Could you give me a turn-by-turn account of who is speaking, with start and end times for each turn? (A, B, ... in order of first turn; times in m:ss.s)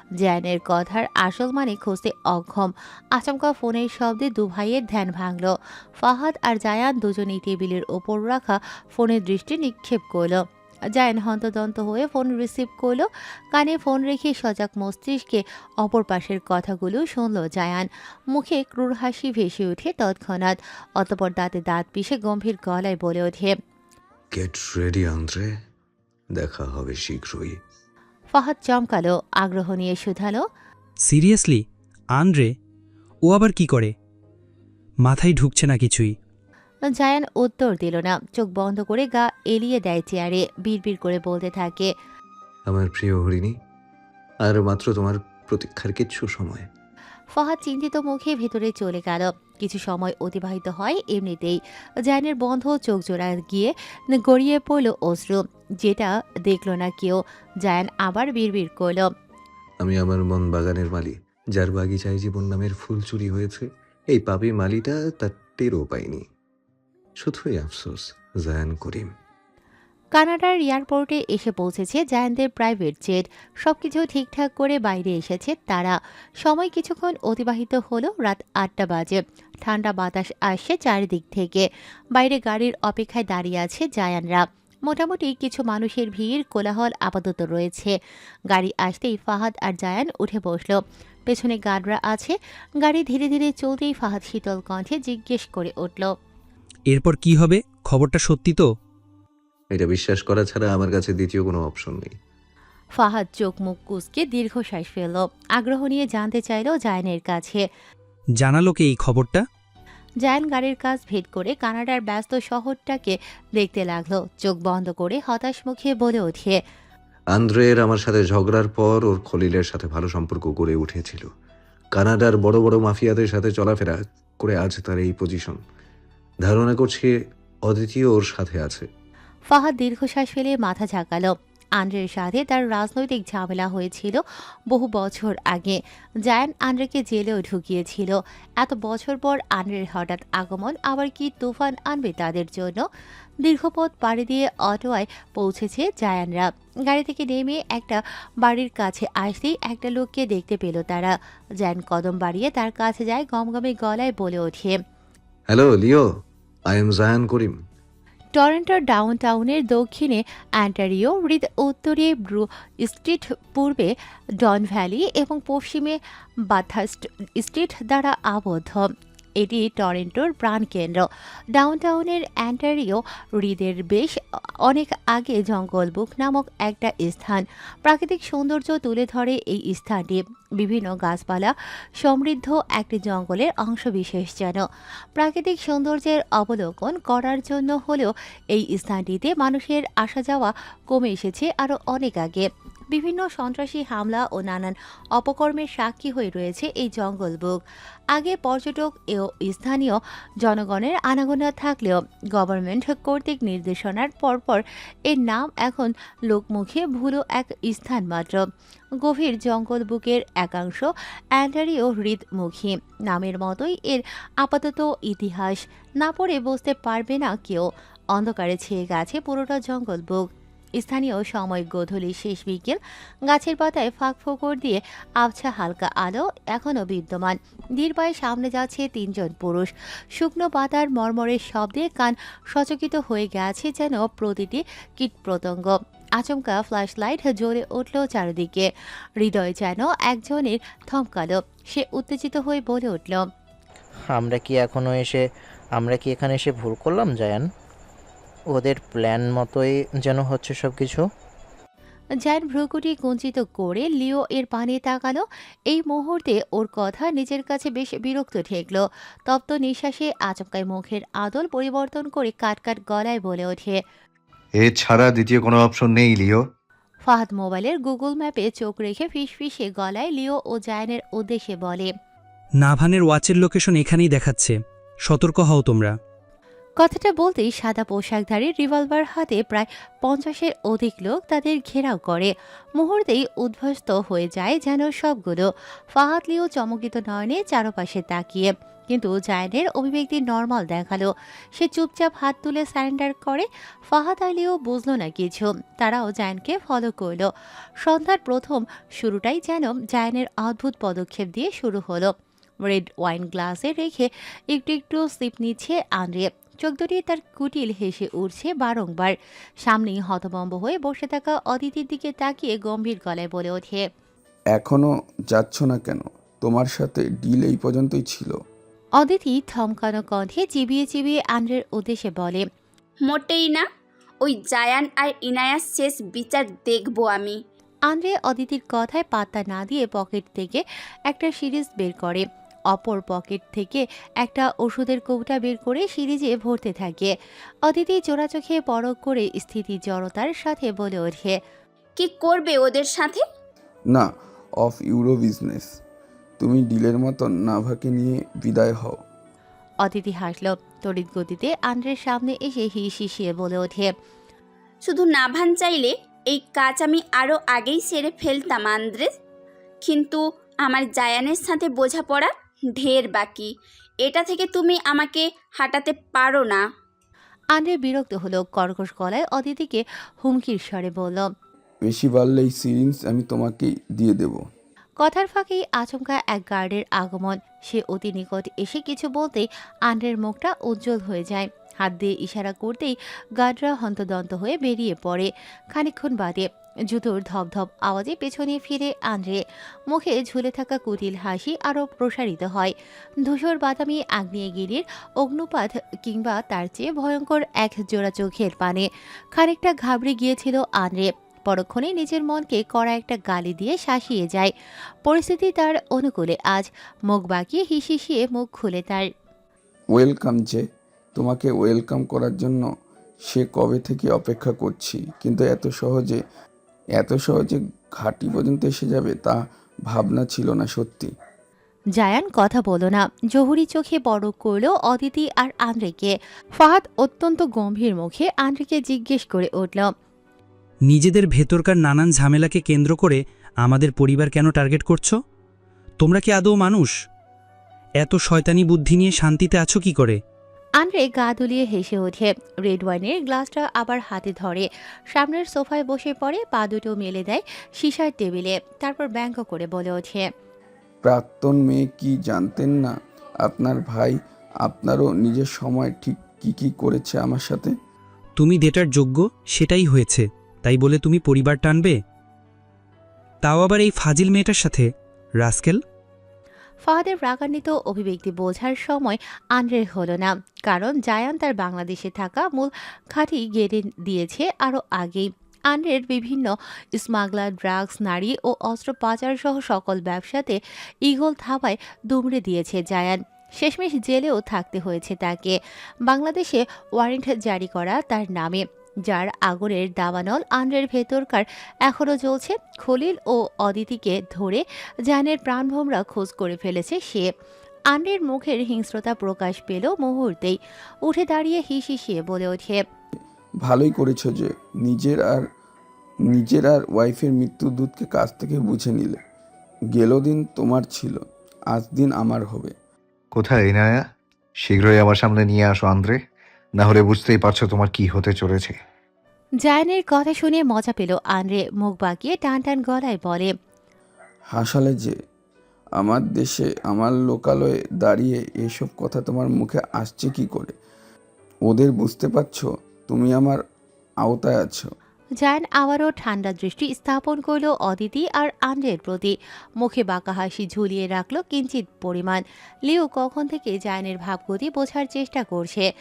0:00.2-0:10.4 A
0:10.9-0:23.5 A
0:24.3-0:25.5 B
0:26.3-0:27.6 B
0:28.3-0:30.4 A
0:31.0-0:32.5 C
0:33.2-0:33.9 C
0:35.0-0:36.1 C
0:36.9-0:41.9 A
0:42.7-0:43.5 B
0:44.4-0:46.7 B
0:47.3-0:59.1 A
0:59.8-1:06.2 B
1:07.2-1:09.1 B
1:10.2-1:27.9 A
1:28.5-1:36.1 A
1:36.9-1:38.7 C
1:39.7-1:42.1 B
1:43.0-1:47.6 A
1:48.4-1:49.4 C
1:50.2-1:56.6 A
1:57.3-2:01.3 B
2:01.9-2:05.6 B
2:06.4-2:07.1 B
2:07.6-2:08.9 B
2:09.5-2:14.2 A
2:14.7-2:22.8 A
2:23.4-2:34.7 A
2:35.5-2:36.0 B
2:36.7-2:37.6 B
2:38.4-2:46.0 A
2:46.5-3:04.6 A
3:05.2-3:17.6 A
3:18.1-3:28.4 A
3:29.0-3:58.7 A
3:59.2-4:03.2 A
4:04.1-4:05.2 D
4:05.8-4:07.5 D
4:08.5-4:11.0 D
4:12.2-4:23.8 A
4:24.6-4:26.4 E
4:27.1-4:31.9 A
4:32.6-4:35.9 C
4:36.8-4:57.3 A
4:57.8-5:02.1 A
5:02.6-5:13.8 A
5:14.5-5:18.4 F
5:19.0-5:22.4 A
5:23.0-5:23.7 G
5:24.2-5:27.4 G
5:27.9-5:37.1 A
5:37.6-5:41.4 A
5:42.0-5:43.2 G
5:44.6-5:45.8 F
5:46.4-5:49.0 F
5:49.8-5:53.9 A
5:54.8-5:59.1 G
5:59.8-6:03.5 G
6:04.0-6:06.6 G
6:07.5-6:11.3 A
6:11.8-6:14.4 F
6:15.0-6:44.5 A
6:45.0-6:49.0 A
6:49.9-6:50.6 F
6:51.2-6:52.6 F
6:53.2-6:56.2 F
6:57.0-7:01.1 F
7:02.0-7:09.9 A
7:10.9-7:15.2 C
7:16.0-7:16.9 C
7:18.0-7:20.2 C
7:20.8-7:30.2 A
7:31.0-7:37.7 F
7:38.4-7:42.0 C
7:43.4-7:44.9 C
7:45.4-7:45.8 C
7:46.9-8:17.3 A
8:17.9-8:22.8 A
8:23.6-8:25.4 F
8:26.3-8:29.2 F
8:29.9-8:32.7 F
8:33.3-8:34.0 E
8:34.6-8:36.2 E
8:36.8-8:38.8 E
8:39.6-8:43.5 A
8:44.5-8:45.2 F
8:46.0-8:50.7 F
8:51.7-8:53.6 F
8:54.2-8:54.9 F
8:55.4-9:05.9 A